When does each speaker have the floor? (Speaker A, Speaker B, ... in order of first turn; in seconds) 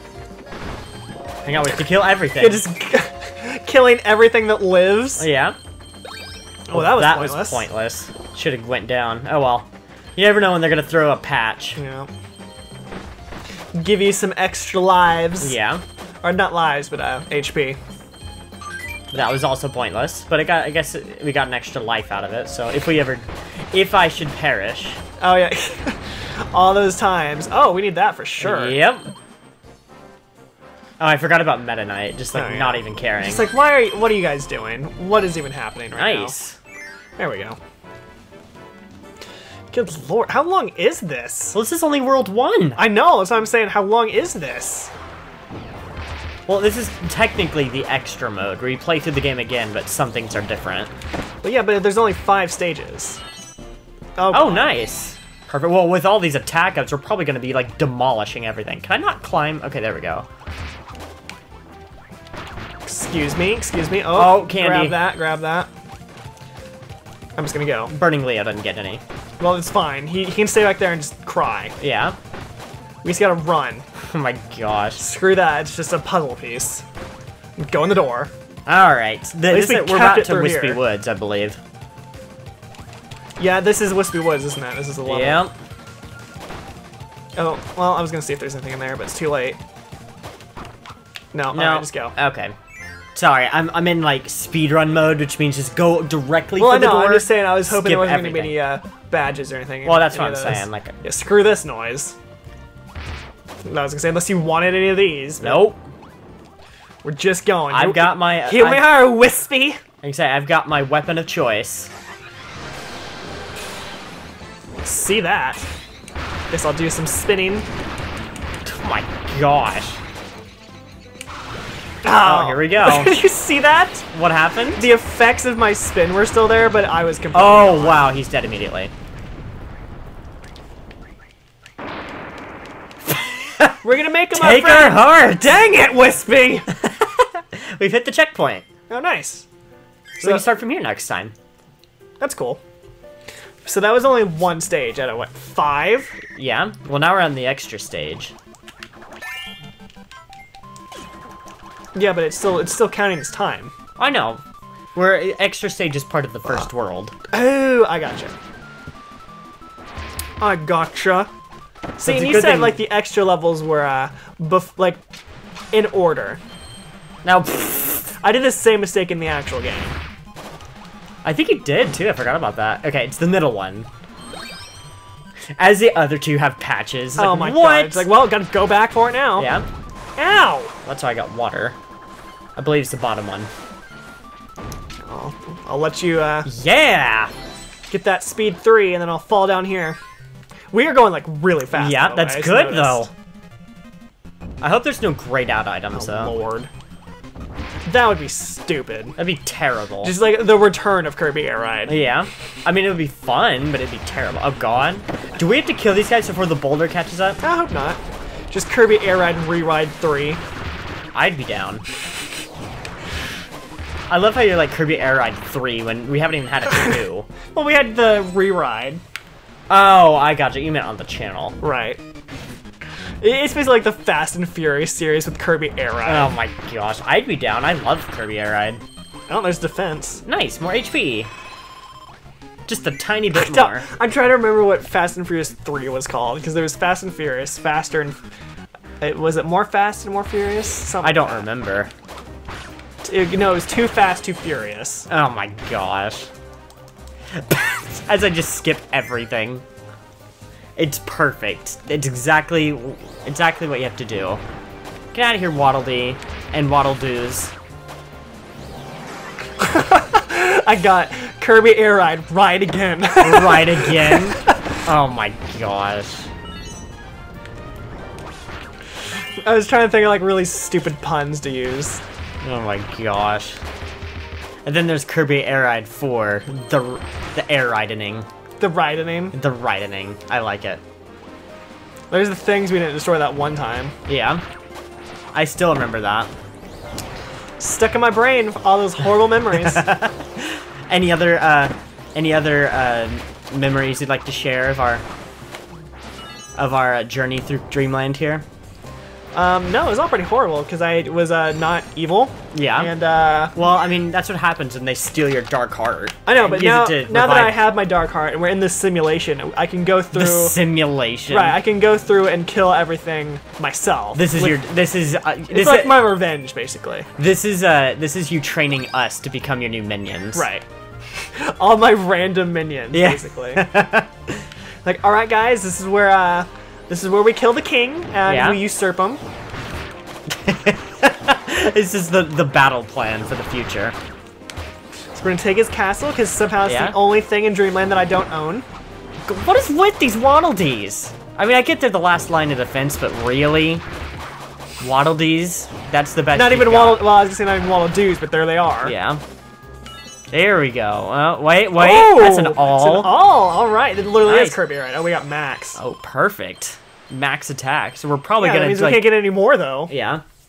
Speaker A: 1.4-2.6, 5.2-5.5, 6.7-11.8, 15.4-15.8, 19.1-25.0, 28.4-29.1, 31.0-33.5, 35.9-36.6, 41.5-42.8, 46.5-50.9, 54.3-60.2, 64.1-65.0, 67.9-69.0, 71.8-72.2, 74.0-75.1, 78.7-81.6, 85.0-85.5, 91.5-92.5, 93.1-98.6, 99.8-101.0, 105.4-105.8, 107.7-109.1, 110.0-111.9, 118.6-120.0, 122.2-123.2, 124.1-124.9, 127.3-128.9, 133.1-135.6, 136.7-138.7, 140.2-141.3, 146.3-148.3, 154.0-154.4, 154.9-157.1, 162.0-162.8, 167.2-168.1, 171.2-173.9, 175.6-178.1, 179.3-179.7, 180.8-181.8, 182.6-183.5, 186.4-187.3, 191.7-193.1, 194.6-196.3, 199.2-200.2, 201.9-207.4, 211.1-211.8, 214.1-217.3, 219.7-221.6, 226.0-228.8, 230.2-231.3, 232.7-233.9, 241.0-241.9, 245.1-246.3, 247.3-249.6, 250.8-254.4, 255.1-257.5, 263.2-266.3, 272.4-273.6, 274.6-278.3, 279.3-280.8, 284.1-284.4, 285.3-286.3, 289.5-295.0, 296.6-298.4, 302.5-302.9, 303.5-307.6, 310.1-311.6, 314.1-316.2, 317.2-320.5, 322.9-324.4, 328.3-328.6, 330.3-333.9, 336.6-337.0, 339.2-343.8, 344.8-347.1, 348.8-349.2, 350.3-353.2, 354.2-354.6, 355.8-359.2, 359.9-360.2
Speaker B: 2.4-5.2, 6.7-7.6, 11.8-12.1, 13.7-15.6, 16.2-17.8, 25.2-28.8, 32.3-36.3, 37.2-37.6, 39.7-41.6, 42.8-44.9, 51.4-53.2, 54.1-54.7, 62.8-65.7, 67.3-67.9, 69.4-71.7, 73.0-73.8, 75.0-76.8, 77.6-78.3, 79.5-80.8, 83.4-85.5, 87.3-89.6, 91.3-92.1, 96.6-102.2, 103.6-105.7, 107.0-109.8, 114.8-115.7, 116.5-117.7, 122.0-124.1, 124.8-128.1, 133.8-136.7, 138.9-139.4, 140.2-140.4, 142.2-142.6, 143.6-146.2, 151.9-153.7, 157.3-158.3, 160.4-161.3, 162.0-165.0, 165.7-166.4, 168.2-169.9, 177.2-179.5, 180.2-180.7, 185.0-186.5, 187.9-190.0, 190.7-193.1, 195.9-196.7, 197.8-199.2, 200.0-201.9, 207.4-210.4, 217.5-219.0, 221.6-222.0, 223.2-226.3, 229.3-230.2, 233.3-238.2, 239.0-241.5, 243.0-245.1, 259.6-264.6, 269.4-272.0, 278.6-279.3, 282.1-283.9, 287.6-289.8, 299.3-303.5, 306.2-310.6, 311.3-314.6, 315.5-317.1, 320.3-320.6, 321.3-323.7, 324.8-329.2, 335.1-338.6, 346.3-348.9, 351.8-355.8, 358.4-359.9